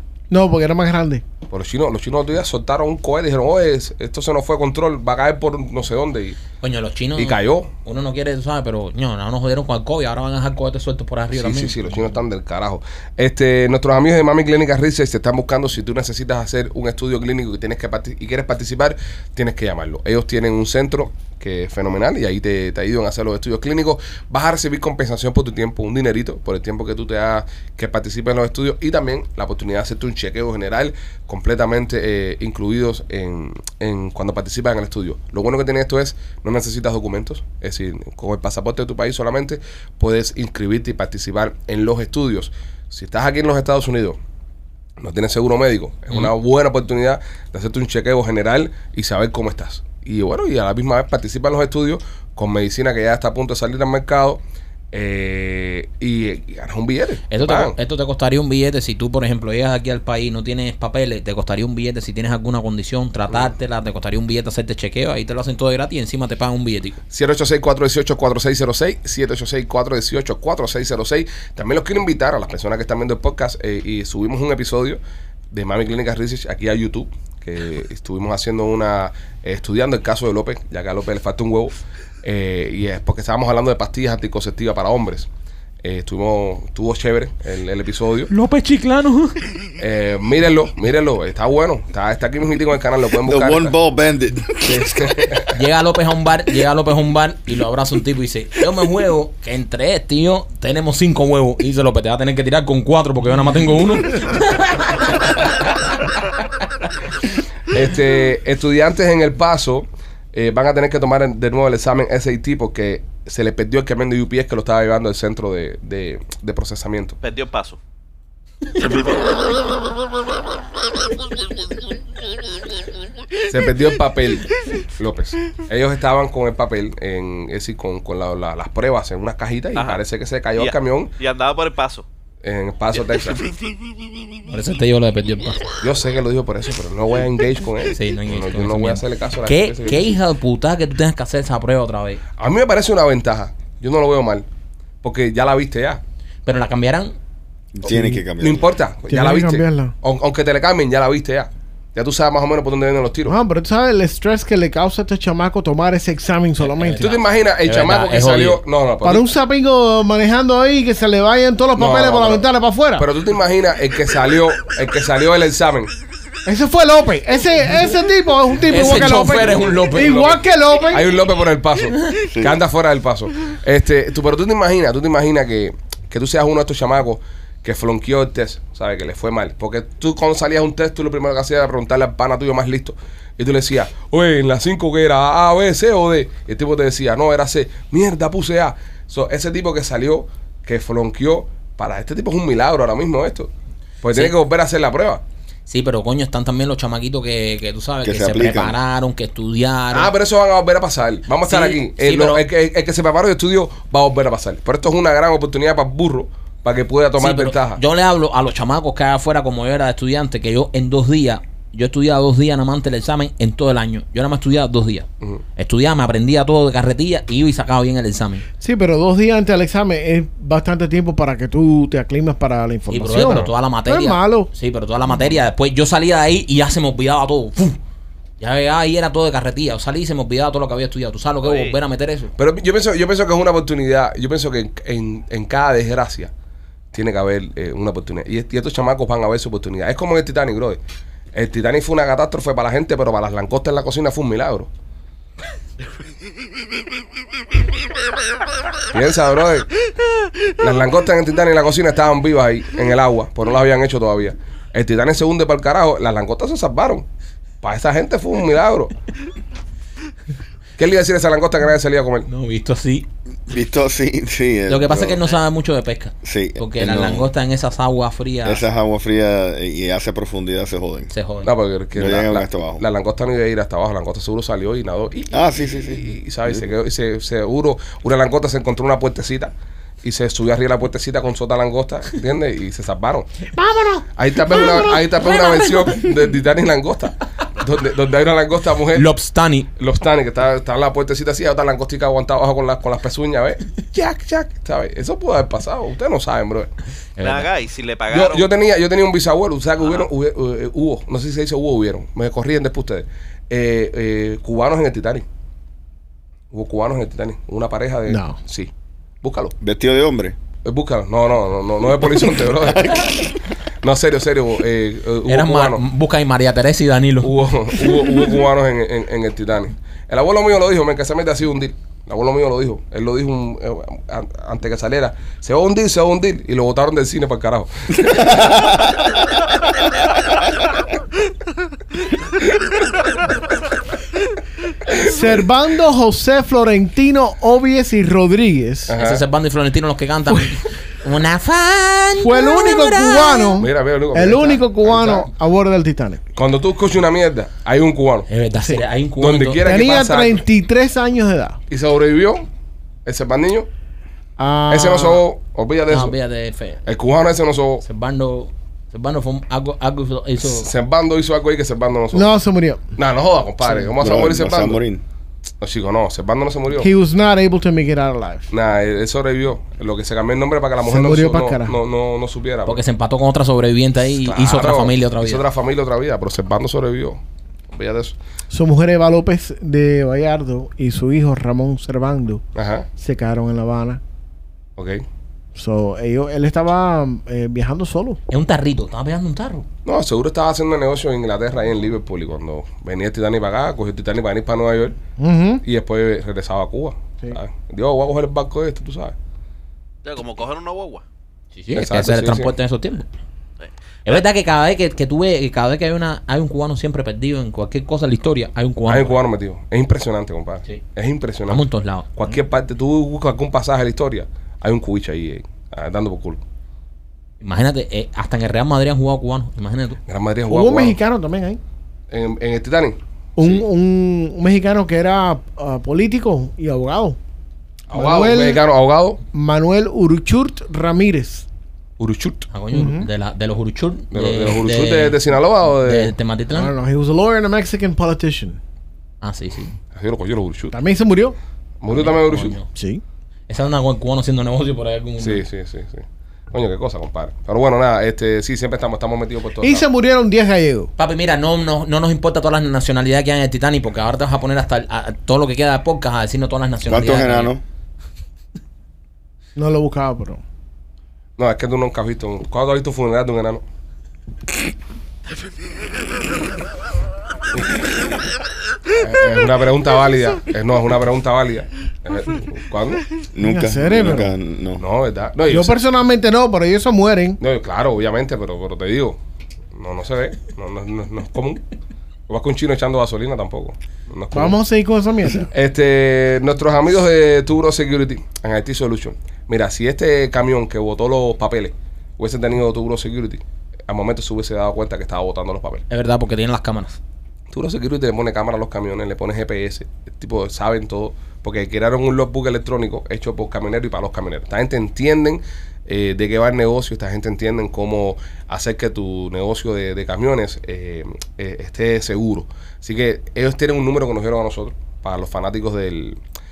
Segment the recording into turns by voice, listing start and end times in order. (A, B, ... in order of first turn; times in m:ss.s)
0:00.3-0:01.2 A
0:01.5-0:06.4 B
0:06.6-0:11.8 C
0:07.2-0:07.7 B
0:11.3-0:44.2 B
0:45.0-0:57.7 B
0:57.3-1:07.0 C
1:07.1-1:15.0 B
1:15.5-1:25.3 B
1:25.8-1:28.3 B
1:28.3-1:29.4 C
1:29.8-1:33.7 B
1:33.2-1:35.4 D
1:34.6-1:35.6 B
1:35.5-1:45.5 C
1:47.7-1:57.2 B
1:57.2-1:57.8 E
2:03.5-2:11.1 B
2:09.8-2:10.0 E
2:10.6-2:12.0 E
2:12.4-2:13.5 B
2:14.4-2:15.7 C
2:15.8-2:20.1 B
2:17.9-2:22.2 C
2:22.4-2:24.4 B
2:25.0-2:26.0 B
2:26.4-2:27.1 C
2:27.7-2:28.7 D
2:27.8-2:28.2 A
2:28.4-2:33.4 B
2:29.1-2:29.9 A
2:33.3-2:37.1 A
2:36.6-2:38.6 C
2:37.0-2:39.3 B
2:39.0-2:43.1 A
2:41.8-2:42.4 B
2:43.0-2:45.9 B
2:46.4-2:51.1 A
2:48.7-2:50.2 C
2:49.1-3:13.5 B
2:52.2-2:52.6 D
3:14.0-3:15.2 B
3:15.7-3:20.1 C
3:18.0-3:18.8 D
3:19.9-3:27.8 B
3:21.4-3:22.4 C
3:27.2-3:38.4 C
3:38.6-3:44.5 A
3:42.9-3:47.8 C
3:48.4-3:52.3 C
3:51.4-3:51.8 E
3:52.4-3:56.3 B
3:56.9-4:00.8 B
4:01.3-4:04.7 B
4:08.9-4:09.7 B
4:10.6-4:17.0 B
4:17.6-4:18.9 B
4:20.8-4:22.3 B
4:22.3-4:23.1 C
4:23.5-4:25.3 D
4:24.7-4:28.6 C
4:26.2-4:27.3 D
4:28.4-4:31.1 D
4:31.1-4:31.5 C
4:31.4-4:39.5 B
4:31.9-4:32.8 D
4:35.3-4:36.6 D
4:40.0-4:43.3 B
4:43.6-4:44.0 A
4:44.2-4:49.1 B
4:45.2-4:46.0 C
4:48.9-4:49.7 C
4:49.8-4:56.7 B
4:57.2-4:57.5 C
4:57.2-4:58.5 E
4:58.1-5:05.2 B
4:59.8-5:00.1 E
5:06.5-5:08.7 B
5:08.1-5:08.4 A
5:09.2-5:09.5 B
5:09.6-5:10.3 D
5:10.6-5:13.3 B
5:13.8-5:15.8 B
5:15.3-5:17.3 C
5:17.2-5:28.7 B
5:28.0-5:29.0 D
5:34.9-5:38.9 A
5:34.9-5:35.3 B
5:38.9-5:39.2 B
5:39.0-5:43.6 C
5:42.2-5:46.2 A
5:43.6-5:45.3 B
5:46.4-5:48.3 B
5:48.3-5:49.7 C
5:49.2-5:50.4 B
5:49.6-5:51.6 A
5:51.7-5:52.5 B
5:53.0-5:53.7 B
5:54.4-5:55.2 A
5:54.7-5:56.2 B
5:55.9-5:56.8 C
5:56.8-5:57.8 B
5:57.8-6:00.7 C
6:00.4-6:02.3 B
6:02.1-6:02.9 A
6:03.0-6:04.8 B
6:04.0-6:05.0 D
6:05.6-6:06.9 B
6:06.7-6:08.5 A
6:08.5-6:12.8 B
6:10.8-6:11.8 A
6:12.6-6:15.4 C
6:14.1-6:18.2 B
6:18.5-6:22.4 A
6:22.5-6:22.9 B
6:23.0-6:24.0 A
6:24.8-6:25.0 B
6:25.5-6:28.2 A
6:28.3-6:29.6 C
6:29.8-6:35.0 B
6:35.2-6:35.6 A
6:35.6-6:39.1 B
6:40.0-6:41.0 E
6:41.5-6:43.1 C
6:41.7-6:42.5 B
6:43.6-6:44.2 E
6:44.0-6:49.2 C
6:48.9-6:51.6 B
6:51.5-6:52.1 C
6:52.2-6:56.4 B
6:57.4-7:00.0 C
7:00.1-7:01.0 B
7:00.5-7:01.6 A
7:02.1-7:03.6 B
7:03.4-7:07.2 A
7:07.9-7:09.2 B
7:07.9-7:08.6 A
7:09.3-7:11.4 A
7:12.0-7:12.5 B
7:12.5-7:15.2 C
7:12.7-7:13.1 A
7:14.1-7:16.1 B
7:15.8-7:16.7 C
7:16.5-7:18.6 A
7:19.2-7:19.7 C
7:19.9-7:20.8 B
7:20.7-7:21.4 A
7:21.8-7:22.6 B
7:21.9-7:22.7 C
7:22.7-7:23.0 A
7:23.5-7:25.4 C
7:25.2-7:29.8 B
7:29.6-7:30.9 A
7:31.0-7:37.5 C
7:36.9-7:37.6 D
7:39.6-7:40.4 A
7:41.4-7:43.6 B
7:48.9-7:53.1 B
7:53.3-7:54.8 D
7:53.4-7:54.3 A
7:54.8-7:55.8 B
7:55.4-7:57.4 A
7:57.4-7:59.2 B
7:59.7-8:01.6 B
8:02.3-8:04.6 B
8:04.3-8:05.5 A
8:05.5-8:15.8 B
8:15.9-8:17.0 C
8:17.5-8:36.2 B